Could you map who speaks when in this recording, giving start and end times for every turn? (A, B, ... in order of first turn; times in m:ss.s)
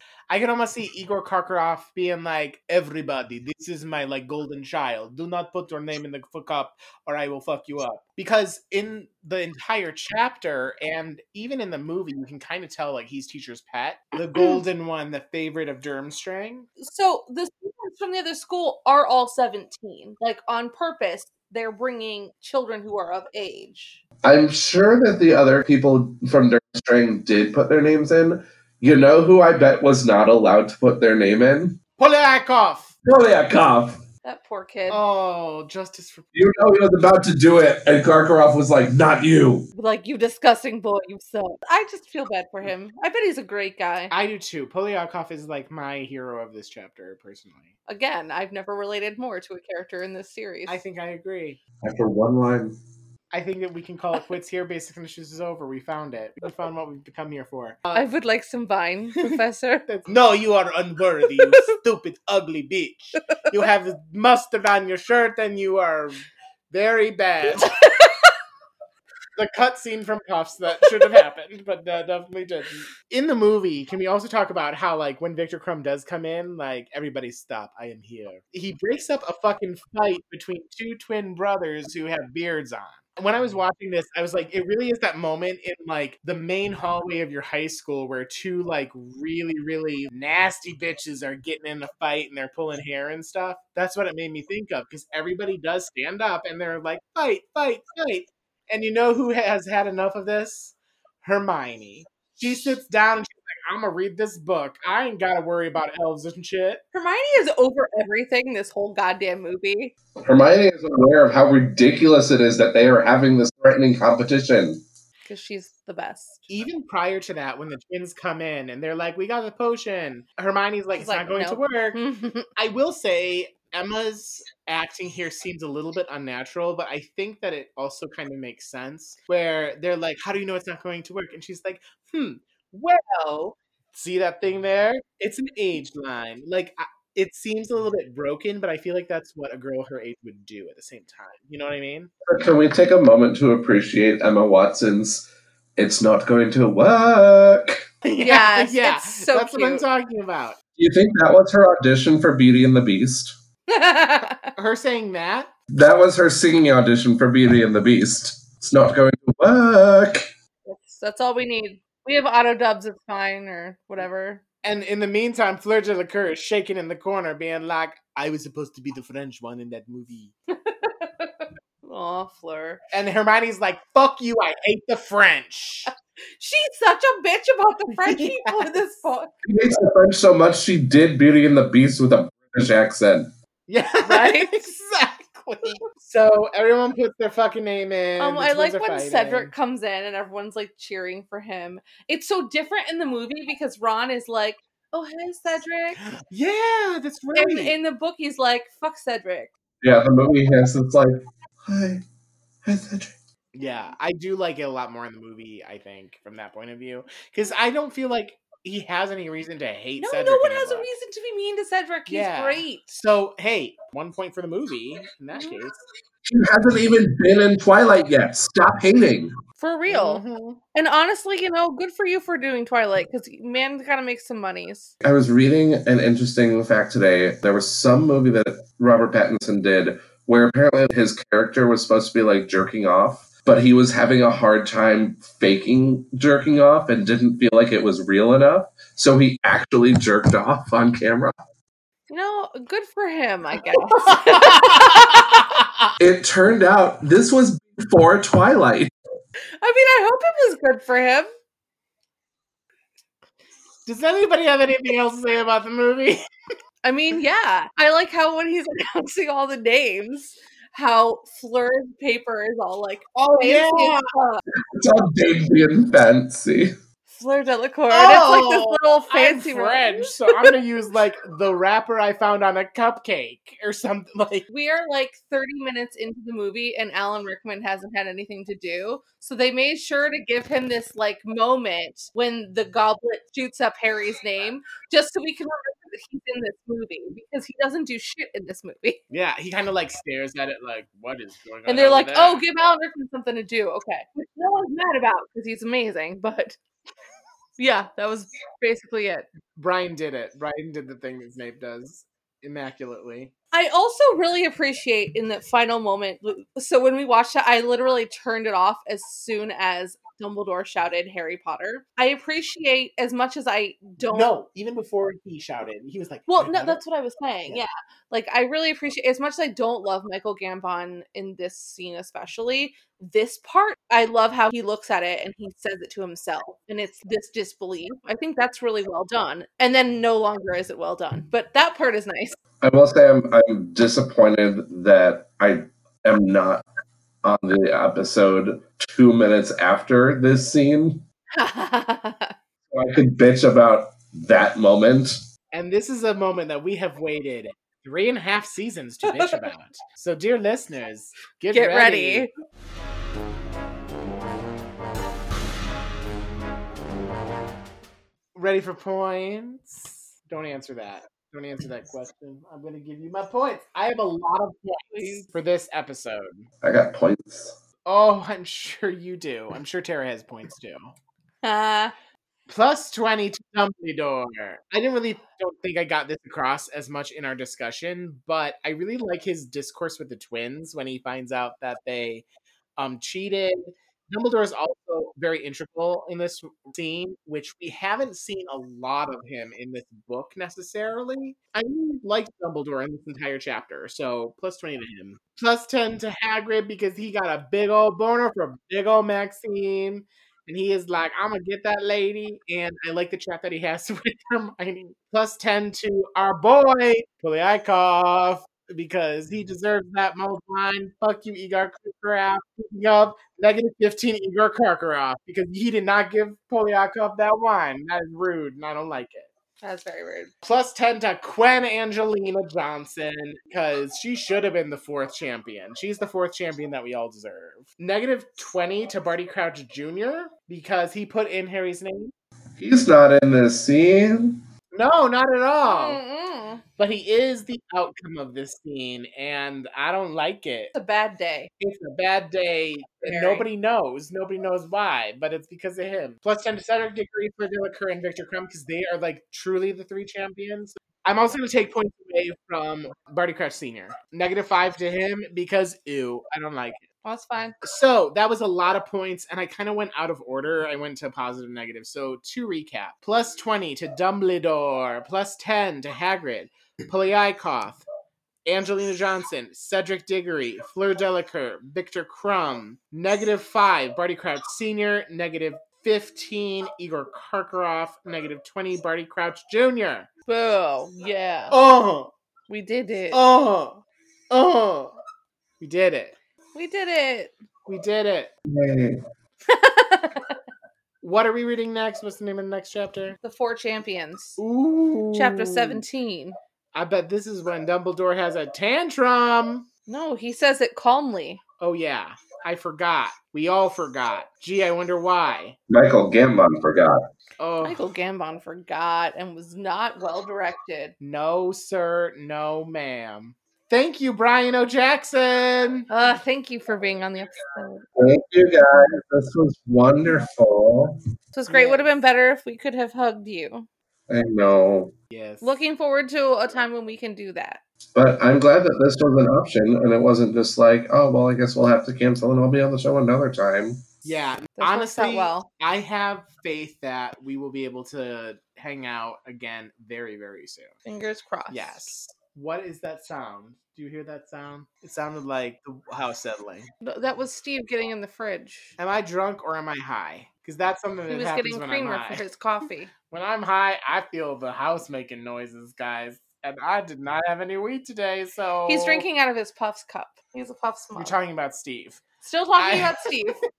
0:00.3-0:16.7 A
0:16.8-0:24.0 B
0:24.2-0:31.8 C
0:32.0-0:32.9 A
0:33.0-0:34.0 C
0:34.2-0:35.0 B
0:34.9-0:36.3 A
0:36.3-0:39.7 C
0:39.7-0:44.1 B
0:44.1-0:47.7 A
0:47.9-0:50.8 B
0:50.7-0:51.6 A
0:51.8-0:52.8 C
0:53.3-0:58.0 A
0:57.9-0:59.9 B
0:59.2-1:07.7 A
1:07.6-1:08.2 B
1:09.4-1:46.8 A
1:46.9-1:49.9 B
1:50.2-1:54.8 C
1:55.2-1:56.4 B
1:56.5-2:02.0 A
2:01.0-2:02.5 B
2:02.6-2:22.1 A
2:22.2-2:27.8 C
2:28.0-2:30.6 A
2:28.2-2:29.8 B
2:30.8-2:33.4 C
2:33.7-2:34.5 B
2:34.5-2:35.5 A
2:35.7-2:40.3 C
2:40.6-2:44.4 B
2:44.6-2:50.3 A
2:50.5-2:52.8 B
2:52.9-2:55.9 A
2:56.4-2:59.3 B
2:58.0-2:58.7 A
2:59.4-3:03.3 C
3:03.7-3:09.5 A
3:04.0-3:04.7 B
3:08.2-3:16.0 B
3:16.0-3:17.8 A
3:17.3-3:19.5 B
3:19.8-3:22.0 C
3:22.6-3:23.1 C
3:23.5-3:30.9 A
3:30.0-3:33.0 B
3:32.1-3:35.8 A
3:35.3-3:35.6 B
3:36.2-3:39.3 C
3:39.6-3:40.2 B
3:39.9-3:40.6 A
3:40.7-3:44.9 B
3:45.0-4:01.3 C
4:02.1-4:05.6 B
4:04.0-4:05.6 A
4:06.0-4:08.9 C
4:09.6-4:11.3 B
4:13.8-4:16.2 A
4:16.8-4:24.4 B
4:23.4-4:24.1 A
4:24.7-4:26.7 C
4:27.1-4:30.5 B
4:27.9-4:34.4 A
4:34.5-4:49.0 B
4:49.1-4:52.4 A
4:51.7-4:56.6 B
4:57.6-4:59.3 B
4:59.6-5:03.3 A
5:03.5-5:14.3 B
5:14.1-5:16.8 A
5:16.3-5:32.4 B
5:32.6-5:36.6 C
5:37.2-5:41.0 C
5:41.3-5:42.3 B
5:42.7-5:45.2 C
5:45.5-5:52.3 A
5:49.1-5:49.4 B
5:51.5-5:52.3 B
5:58.3-6:06.4 A
6:04.9-6:05.3 B
6:06.6-6:07.6 C
6:07.8-6:10.9 A
6:11.4-6:11.9 B
6:12.5-6:22.2 A
6:22.8-6:59.3 A
6:59.6-7:00.3 B
7:00.4-7:12.1 A
7:12.6-7:14.4 C
7:14.7-7:16.0 A
7:15.6-7:16.6 B
7:16.8-7:20.7 A
7:20.7-7:21.5 B
7:21.6-7:36.8 A
7:23.0-7:23.4 B
7:37.0-7:37.5 B
7:37.6-7:47.8 A
7:48.4-8:00.1 A
8:00.3-8:01.6 B
8:01.5-8:02.1 A
8:02.5-8:03.2 B
8:03.1-8:04.9 A
8:05.6-8:06.2 A
8:06.5-8:07.3 B
8:07.7-8:08.3 A
8:08.5-8:09.0 C
8:09.5-8:10.4 B
8:11.0-8:13.2 A
8:13.2-8:14.4 B
8:14.4-8:15.8 A
8:15.1-8:16.4 B
8:16.7-8:19.7 A
8:19.9-8:21.4 B
8:21.6-8:25.6 A
8:25.7-8:27.0 C
8:27.4-8:27.8 A
8:27.6-8:30.9 B
8:31.0-8:35.9 A
8:35.9-8:37.8 B
8:38.0-8:41.0 C
8:41.3-8:43.7 B
8:41.5-8:41.8 A
8:44.1-8:44.9 C
8:45.1-8:45.5 A
8:45.4-8:47.6 B
8:47.9-8:53.9 C
8:54.0-9:00.7 A
8:54.6-8:55.5 B
9:00.8-9:01.9 B
9:01.5-9:06.7 A
9:06.8-9:08.7 B
9:08.8-9:12.2 A
9:11.1-9:12.9 B
9:13.1-9:19.0 A
9:18.7-9:21.2 B
9:21.0-9:22.0 A
9:22.2-9:23.4 B
9:22.6-9:23.0 A